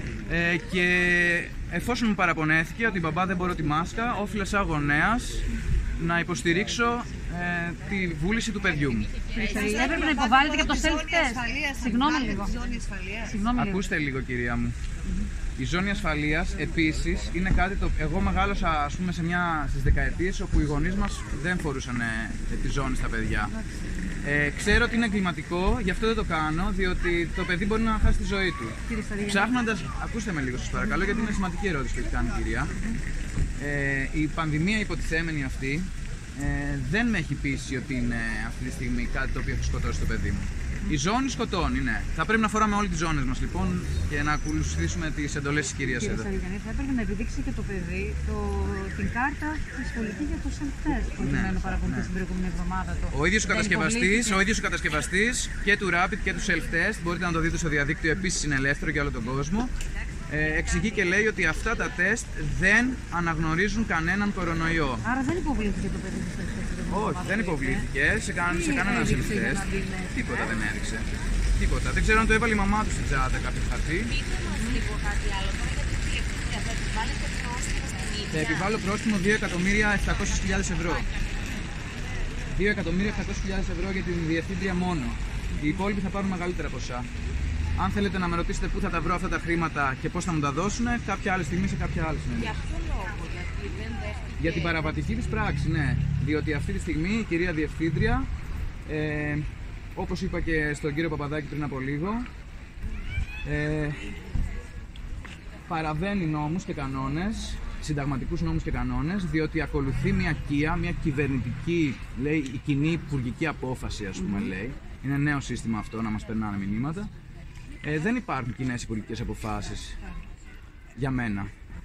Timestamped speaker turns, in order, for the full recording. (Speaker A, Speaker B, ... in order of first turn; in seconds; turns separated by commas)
Speaker A: 0.2-9.2, Speaker B: 9.3-12.6, Speaker C: 9.3-13.4, Speaker B: 13.2-13.8, Speaker A: 13.5-14.8, Speaker A: 15.6-23.6, Speaker A: 24.2-32.8, Speaker B: 28.9-29.6, Speaker B: 30.8-31.4, Speaker A: 33.6-46.3, Speaker B: 45.9-54.4, Speaker A: 51.2-52.1, Speaker A: 53.1-59.7, Speaker A: 60.3-65.1, Speaker B: 65.0-67.8, Speaker A: 66.9-74.1, Speaker B: 68.4-70.3, Speaker C: 74.1-78.7, Speaker B: 74.5-74.8, Speaker A: 78.3-81.1, Speaker A: 82.5-87.1, Speaker A: 87.8-92.6, Speaker C: 92.3-95.0, Speaker A: 94.4-98.3, Speaker A: 98.8-102.3, Speaker A: 103.4-104.1, Speaker A: 105.7-117.1, Speaker B: 114.2-114.5, Speaker A: 117.8-120.0, Speaker A: 121.0-121.5